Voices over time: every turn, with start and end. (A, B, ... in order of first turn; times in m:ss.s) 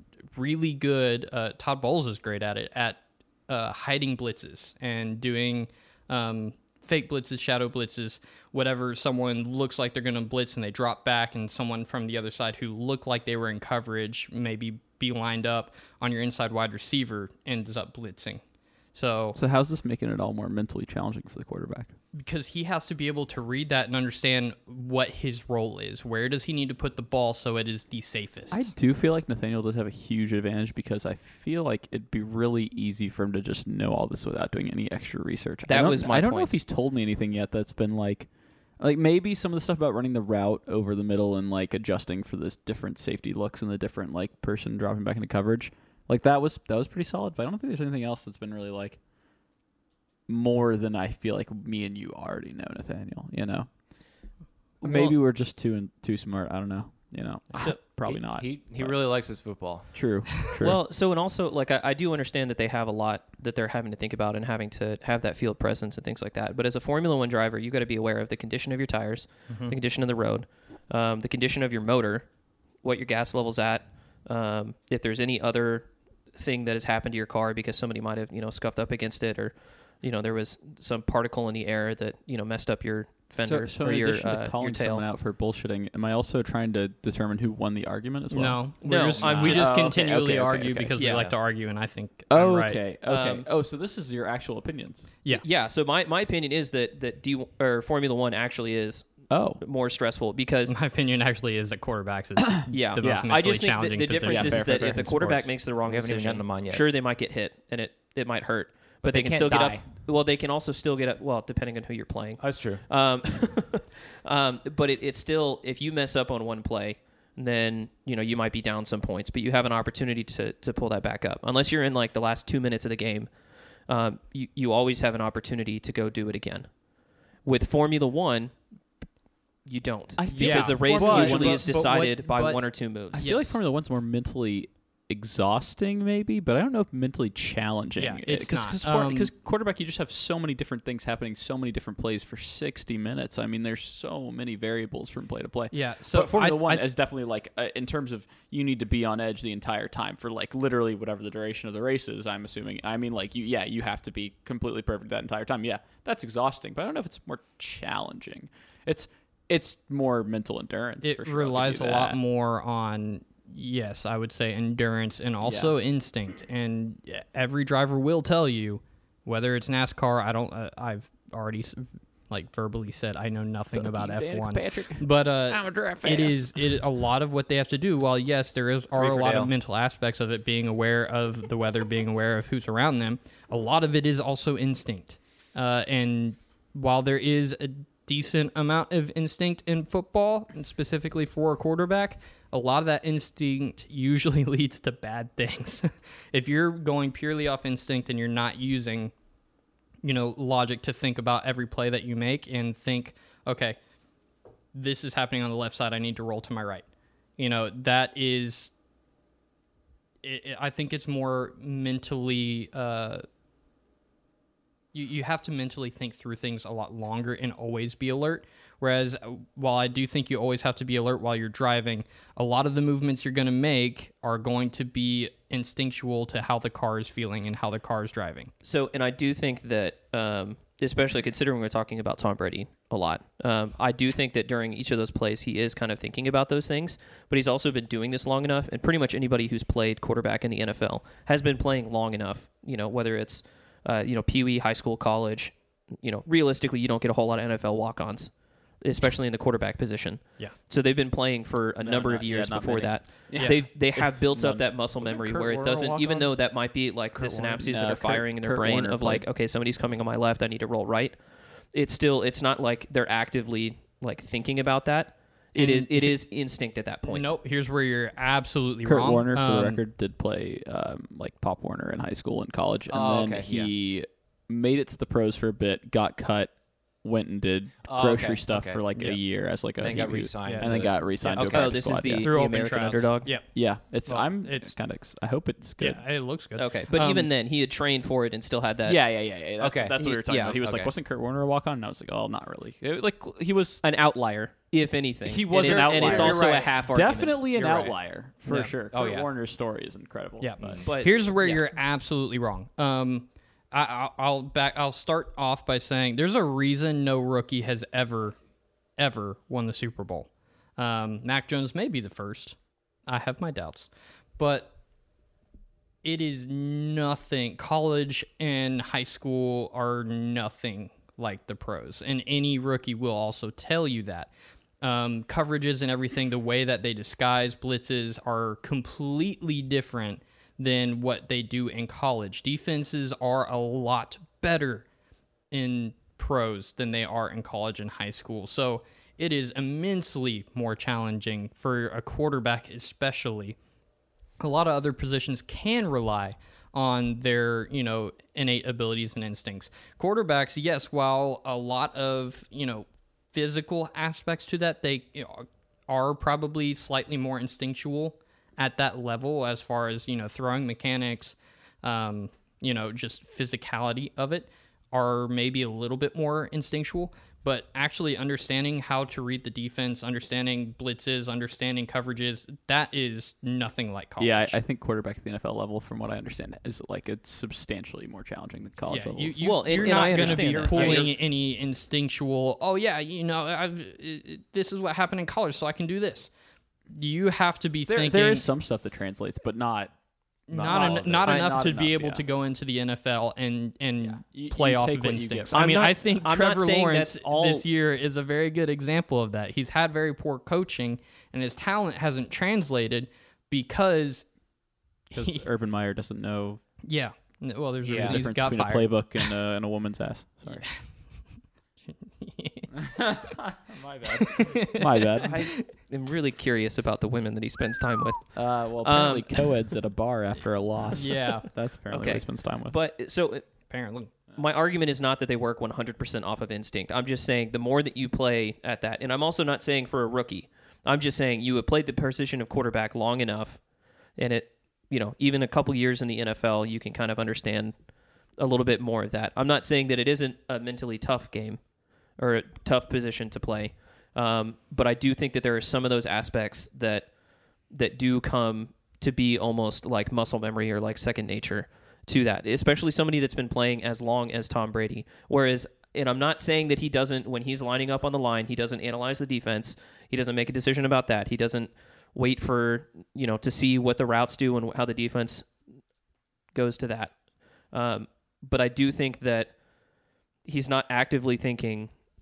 0:00.3-0:18.4 A
0:18.9-0:19.4 A
0:19.3-0:21.9 B
0:22.1-0:28.7 A
0:28.5-0:49.0 B
0:35.6-0:36.6 C
0:50.3-0:53.7 B
0:54.8-0:55.1 C
0:54.8-0:59.0 B
0:57.6-0:57.9 C
0:58.1-0:59.9 D
0:59.9-1:00.8 B
1:00.6-1:12.3 C
1:09.5-1:09.7 A
1:12.8-1:25.0 C
1:23.4-1:28.6 B
1:28.3-1:32.8 A
1:28.8-1:30.0 C
1:29.2-1:31.0 B
1:31.0-1:31.3 C
1:32.3-1:35.1 B
1:33.1-1:33.4 C
1:35.3-1:40.7 C
1:39.3-1:39.6 B
1:40.7-1:45.4 A
1:42.4-1:43.4 B
1:42.7-2:03.3 C
1:44.2-1:45.2 B
1:45.8-1:46.8 D
1:49.0-1:49.8 D
1:52.4-1:52.8 D
2:03.9-2:06.7 C
2:07.4-2:08.5 C
2:09.6-2:13.3 C
2:10.2-2:11.9 B
2:10.3-2:13.6 A
2:13.1-2:42.2 B
2:18.0-2:19.3 A
2:25.7-2:26.9 A
2:41.0-3:19.1 A
2:45.4-2:45.8 B
2:53.7-2:56.6 B
2:59.0-2:59.5 D
3:20.0-3:23.8 A
3:24.7-3:26.8 A
3:27.4-3:28.7 A
3:30.2-3:33.2 A
3:34.9-3:48.5 A
3:48.6-4:21.2 C
4:11.8-4:14.7 B
4:13.4-4:13.6 A
4:15.0-4:16.3 D
4:17.2-4:17.6 D
4:17.6-4:19.2 B
4:21.7-4:27.3 C
4:25.6-4:26.1 A
4:27.0-4:29.8 A
4:28.8-4:42.3 B
4:32.9-4:33.7 D
4:37.8-4:38.8 D
4:39.8-4:41.8 D
4:40.4-4:40.8 A
4:41.3-4:43.3 C
4:42.2-4:43.5 A
4:43.5-4:46.0 B
4:44.0-4:44.7 A
4:45.8-4:47.3 A
4:46.6-4:49.0 C
4:48.8-4:53.8 B
4:49.6-4:50.9 D
4:50.0-4:50.5 C
4:53.8-4:57.8 C
4:55.2-5:00.8 B
4:55.5-4:56.7 D
4:57.6-4:57.9 D
4:58.4-4:58.7 A
4:58.9-4:59.3 D
5:00.4-5:08.4 A
5:00.8-5:01.6 C
5:09.0-5:12.5 A
5:13.1-5:14.7 A
5:16.0-5:24.3 A
5:24.8-5:34.8 A
5:35.5-5:43.6 A
5:44.4-6:14.6 A
6:14.2-6:21.0 B
6:18.9-6:26.3 A
6:19.4-6:21.1 C
6:20.0-6:21.1 D
6:26.9-6:28.5 A
6:27.9-6:29.9 B
6:30.5-6:44.2 A
6:30.5-6:32.2 B
6:30.5-6:31.3 D
6:34.0-6:35.6 B
6:35.5-6:37.6 C
6:45.1-6:45.4 A
6:45.1-6:46.6 B
6:46.8-6:49.3 A
6:47.8-6:48.2 D
6:47.9-6:50.6 B
6:50.5-6:50.8 A
6:51.9-6:53.0 A
6:52.7-6:55.4 B
6:54.1-6:55.6 A
6:55.2-6:59.6 C
6:58.3-7:02.7 B
7:00.9-7:01.5 A
7:01.9-7:03.4 C
7:03.7-7:04.1 A
7:04.4-7:13.6 C
7:14.2-7:17.7 C
7:18.4-7:21.6 C
7:22.2-7:27.1 C
7:27.7-7:45.5 C
7:46.5-7:47.1 C
7:47.7-7:49.5 C
7:50.4-7:51.9 C